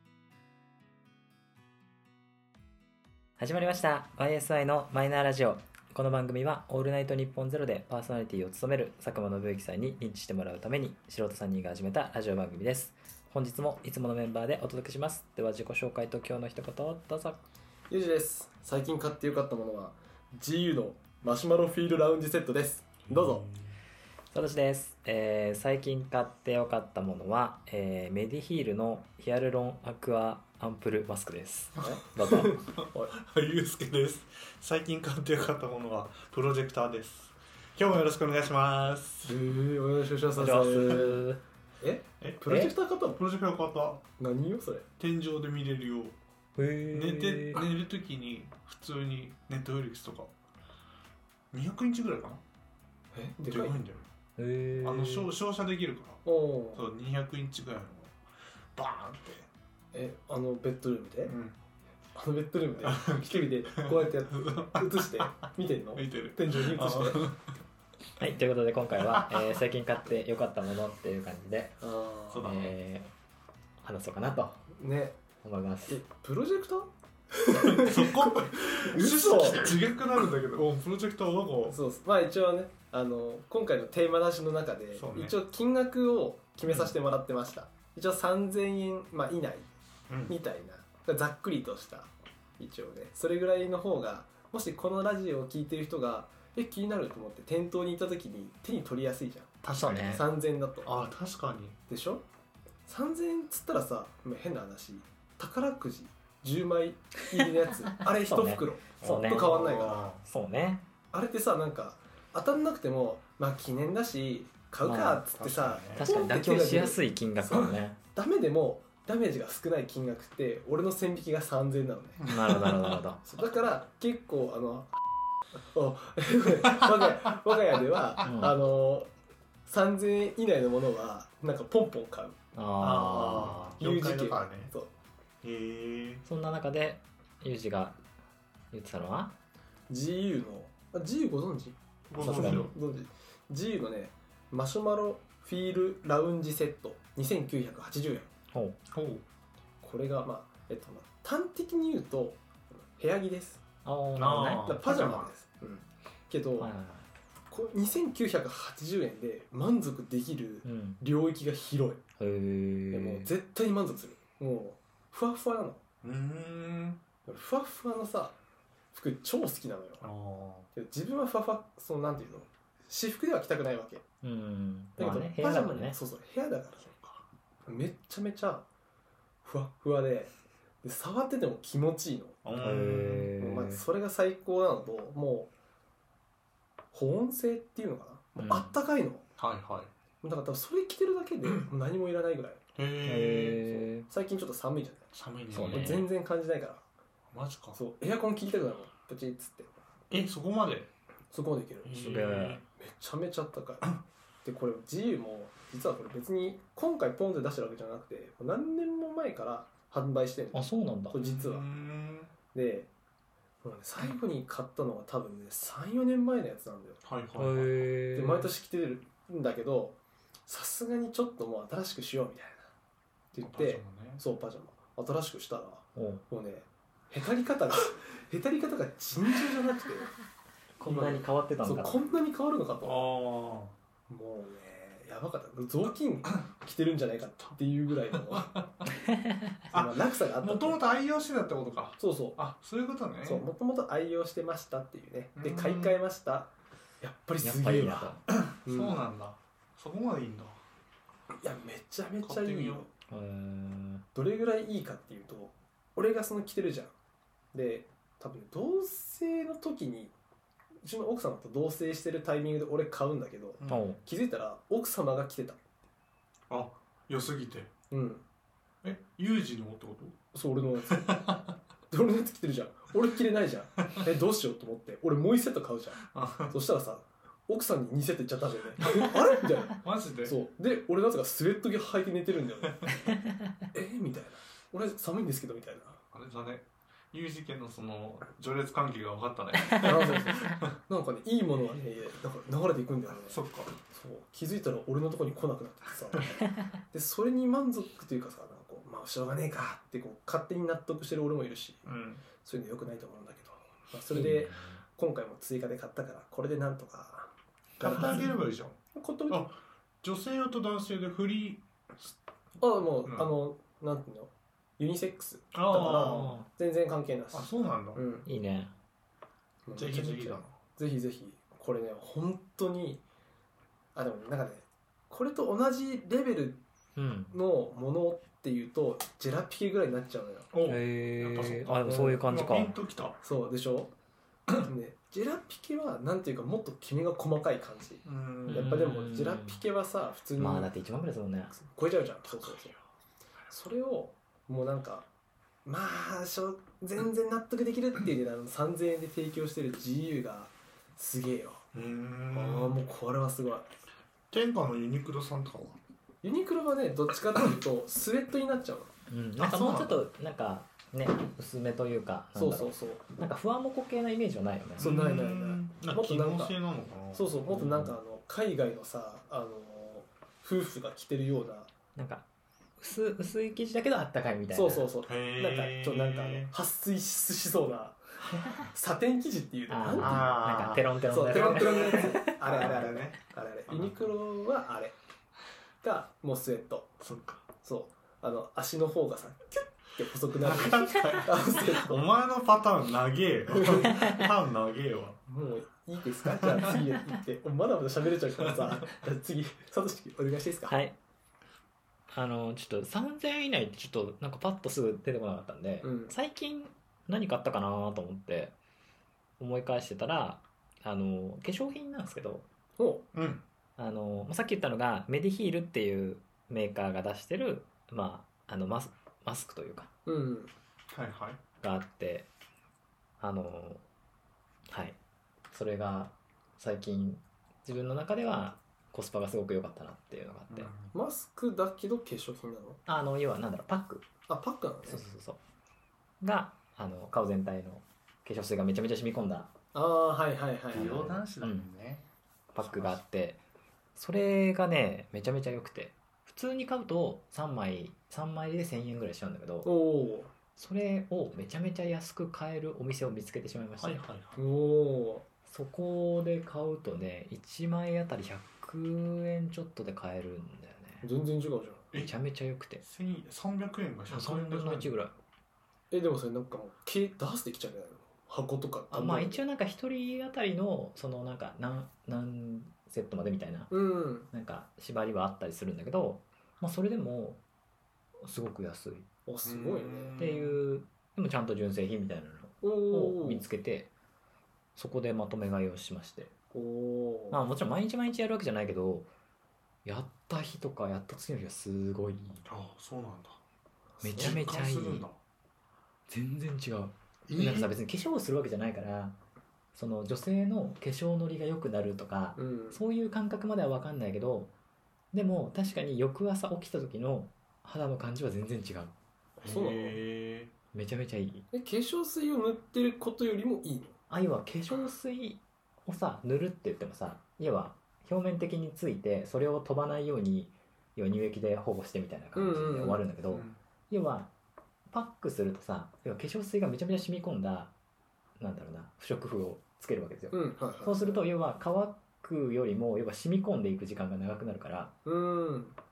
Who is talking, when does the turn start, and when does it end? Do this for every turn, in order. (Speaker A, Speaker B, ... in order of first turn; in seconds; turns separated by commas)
Speaker A: 3.4-17.4, Speaker B: 17.9-23.4, Speaker C: 23.1-23.8, Speaker A: 24.3-32.6, Speaker B: 31.8-33.1, Speaker C: 32.8-39.4, Speaker B: 39.2-41.2, Speaker A: 40.4-41.4, Speaker B: 41.8-43.2, Speaker C: 42.2-42.5, Speaker A: 42.5-42.7, Speaker C: 43.1-44.0, Speaker B: 44.2-44.9, Speaker C: 45.0-46.2, Speaker A: 46.6-47.6, Speaker C: 46.9-50.3, Speaker C: 51.5-52.4, Speaker B: 53.1-53.8, Speaker C: 53.5-54.1, Speaker A: 54.4-55.3, Speaker C: 54.8-56.2, Speaker B: 56.2-56.8, Speaker C: 56.7-58.1, Speaker C: 58.8-59.5, Speaker B: 59.9-61.3, Speaker C: 61.2-61.6, Speaker B: 62.1-67.2, Speaker C: 62.8-65.3, Speaker C: 66.0-67.4, Speaker A: 68.2-71.8, Speaker C: 69.0-69.5, Speaker B: 71.8-72.5, Speaker C: 72.3-72.7, Speaker A: 72.4-73.1, Speaker A: 73.8-74.7, Speaker B: 74.7-75.2, Speaker A: 75.4-76.0, Speaker B: 75.9-79.8, Speaker C: 77.5-81.8, Speaker B: 81.7-89.7, Speaker C: 84.9-85.3, Speaker A: 86.7-86.9, Speaker C: 90.1-90.4, Speaker B: 90.3-100.9, Speaker C: 99.6-100.2, Speaker A: 99.7-100.2, Speaker C: 100.8-101.8, Speaker B: 101.9-102.2, Speaker B: 102.9-110.1, Speaker A: 108.2-109.5, Speaker C: 109.0-110.2, Speaker A: 110.2-110.8, Speaker B: 111.1-122.3, Speaker A: 114.8-115.2, Speaker C: 115.3-116.1, Speaker A: 115.9-118.0, Speaker C: 122.2-123.0, Speaker A: 122.3-123.2, Speaker B: 123.3-124.9, Speaker B: 125.7-129.1, Speaker C: 126.7-127.1, Speaker A: 128.2-128.6, Speaker B: 129.7-132.4, Speaker A: 132.5-133.8, Speaker C: 132.8-134.7, Speaker B: 132.9-134.9, Speaker C: 135.4-136.2, Speaker A: 136.2-138.0, Speaker A: 138.7-139.3, Speaker B: 139.9-148.3, Speaker C: 142.1-142.7, Speaker A: 142.2-142.7, Speaker A: 148.5-148.8, Speaker C: 148.9-149.2, Speaker B: 149.8-152.4, Speaker B: 152.9-153.6, Speaker A: 153.8-154.7, Speaker C: 154.2-155.3, Speaker B: 154.5-156.7, Speaker A: 156.6-157.1, Speaker B: 157.5-162.0, Speaker A: 160.6-161.0, Speaker A: 162.2-163.3, Speaker B: 162.9-165.8, Speaker C: 166.0-167.0, Speaker B: 167.2-168.4, Speaker B: 168.9-170.0, Speaker C: 170.0-170.7, Speaker B: 170.7-174.0, Speaker A: 174.2-176.0, Speaker B: 175.0-176.9, Speaker C: 176.9-177.2, Speaker B: 177.7-178.7, Speaker B: 179.4-180.3, Speaker B: 180.8-182.4, Speaker C: 182.4-183.3, Speaker A: 182.6-183.8, Speaker B: 183.4-185.5, Speaker B: 186.9-189.2, Speaker A: 188.4-188.7, Speaker C: 189.4-189.9, Speaker B: 190.2-192.6, Speaker C: 192.8-193.6, Speaker A: 193.0-194.1, Speaker B: 193.6-195.1, Speaker C: 195.1-196.1, Speaker A: 195.5-196.1, Speaker B: 195.7-196.8, Speaker C: 197.3-197.8, Speaker B: 197.7-199.7, Speaker C: 200.1-200.9, Speaker B: 201.3-203.9, Speaker C: 201.8-202.6, Speaker A: 202.0-202.6, Speaker B: 204.4-211.7, Speaker A: 210.5-211.2, Speaker C: 211.1-212.3, Speaker B: 212.5-212.9, Speaker B: 213.6-217.0, Speaker C: 217.0-217.9, Speaker A: 217.4-218.5, Speaker B: 218.1-222.7, Speaker B: 223.3-230.1, Speaker C: 223.4-224.2, Speaker A: 225.9-226.2, Speaker A: 230.8-232.0, Speaker B: 230.8-233.1, Speaker C: 232.8-233.7, Speaker B: 234.1-238.7, Speaker C: 238.3-238.7, Speaker A: 239.1-239.5, Speaker B: 239.7-240.8, Speaker C: 239.7-243.4, Speaker B: 242.0-242.4, Speaker B: 243.2-249.0, Speaker C: 245.4-246.0, Speaker A: 247.4-248.2, Speaker C: 248.3-250.6, Speaker B: 251.4-252.9, Speaker C: 252.2-252.8, Speaker A: 253.1-254.0, Speaker B: 254.1-256.9, Speaker B: 257.5-260.1, Speaker B: 260.8-265.6, Speaker A: 263.7-264.0, Speaker C: 266.5-267.7, Speaker B: 267.9-268.2, Speaker C: 268.8-270.1, Speaker B: 270.3-271.2, Speaker C: 270.9-271.5, Speaker B: 271.9-282.9, Speaker C: 276.1-276.6, Speaker C: 279.8-280.4, Speaker B: 283.7-286.0, Speaker C: 286.1-290.7, Speaker B: 289.8-293.4, Speaker C: 293.2-293.7, Speaker B: 293.9-301.9, Speaker C: 301.9-302.2, Speaker B: 302.4-308.3, Speaker A: 304.1-304.8, Speaker C: 307.8-312.1, Speaker B: 308.9-309.4, Speaker B: 312.6-318.2, Speaker C: 315.5-316.4, Speaker A: 316.2-316.4, Speaker C: 317.3-318.0, Speaker A: 318.2-318.7, Speaker B: 319.6-323.0, Speaker C: 319.7-320.5, Speaker B: 323.9-326.6, Speaker A: 326.9-327.4, Speaker B: 327.3-330.5, Speaker C: 330.5-333.2, Speaker A: 330.6-332.8, Speaker B: 331.8-332.2, Speaker B: 333.2-333.9, Speaker B: 334.5-340.7, Speaker C: 338.0-338.9, Speaker A: 338.5-339.6, Speaker A: 340.4-341.5, Speaker B: 341.6-342.8, Speaker C: 342.2-342.8, Speaker B: 343.5-345.1, Speaker B: 345.6-351.6, Speaker C: 351.7-352.8, Speaker B: 352.3-353.7, Speaker C: 354.3-355.8, Speaker B: 356.2-358.9, Speaker A: 359.1-364.9, Speaker C: 359.4-360.0, Speaker B: 362.4-363.1, Speaker B: 364.8-366.6, Speaker C: 364.8-367.3, Speaker B: 367.1-371.7, Speaker A: 367.5-367.9, Speaker A: 371.9-372.2, Speaker A: 372.8-374.9, Speaker B: 374.5-378.0, Speaker C: 375.0-376.5, Speaker A: 378.3-378.6, Speaker B: 378.5-380.4, Speaker A: 379.7-382.4, Speaker C: 380.0-384.1, Speaker B: 381.1-384.9, Speaker B: 385.8-387.0, Speaker C: 387.0-387.4, Speaker B: 387.6-392.0, Speaker C: 390.4-395.2, Speaker B: 393.6-393.9, Speaker A: 393.9-394.2, Speaker B: 395.3-400.7, Speaker C: 396.4-396.7, Speaker C: 398.4-398.8, Speaker A: 400.7-400.9, Speaker A: 402.1-408.6, Speaker B: 405.8-406.1, Speaker A: 409.4-412.4, Speaker B: 412.8-413.0, Speaker C: 413.1-413.4, Speaker A: 413.8-419.9, Speaker B: 420.1-420.5, Speaker C: 420.9-421.4, Speaker A: 421.6-422.3, Speaker A: 423.2-423.8, Speaker A: 424.7-425.0, Speaker A: 425.5-430.7, Speaker C: 430.5-430.9, Speaker B: 430.9-432.8, Speaker A: 432.9-434.1, Speaker B: 434.3-435.1, Speaker A: 434.8-435.4, Speaker A: 436.2-439.5, Speaker B: 439.7-441.2, Speaker C: 440.7-442.1, Speaker A: 440.7-441.7, Speaker A: 442.5-443.4, Speaker C: 442.6-443.0, Speaker A: 443.9-449.7, Speaker B: 449.6-450.3, Speaker A: 450.6-454.0, Speaker C: 453.8-454.4, Speaker B: 454.4-455.2, Speaker A: 455.5-461.1, Speaker B: 461.0-461.9, Speaker A: 461.9-462.8, Speaker C: 462.8-464.9, Speaker A: 464.1-465.1, Speaker B: 465.9-469.4, Speaker A: 468.9-473.7, Speaker B: 473.7-474.3, Speaker A: 474.3-477.4, Speaker A: 478.2-479.1, Speaker B: 479.2-480.1, Speaker C: 479.4-480.6, Speaker A: 480.2-483.9, Speaker B: 482.6-483.4, Speaker A: 484.8-486.3, Speaker B: 486.5-487.4, Speaker A: 487.3-489.1, Speaker A: 489.8-492.4, Speaker C: 492.4-493.4, Speaker B: 494.0-494.4, Speaker A: 494.0-495.1, Speaker C: 494.1-495.2, Speaker A: 496.1-499.2, Speaker C: 497.3-497.7, Speaker A: 499.7-504.5, Speaker B: 502.4-502.8, Speaker A: 505.1-508.9, Speaker C: 509.4-510.5, Speaker B: 509.4-510.0, Speaker A: 510.7-511.5, Speaker B: 511.5-514.0, Speaker A: 514.1-524.3, Speaker B: 522.3-523.0, Speaker C: 523.3-523.6, Speaker A: 524.9-527.7, Speaker A: 528.4-534.9, Speaker B: 530.3-531.2, Speaker B: 535.0-535.8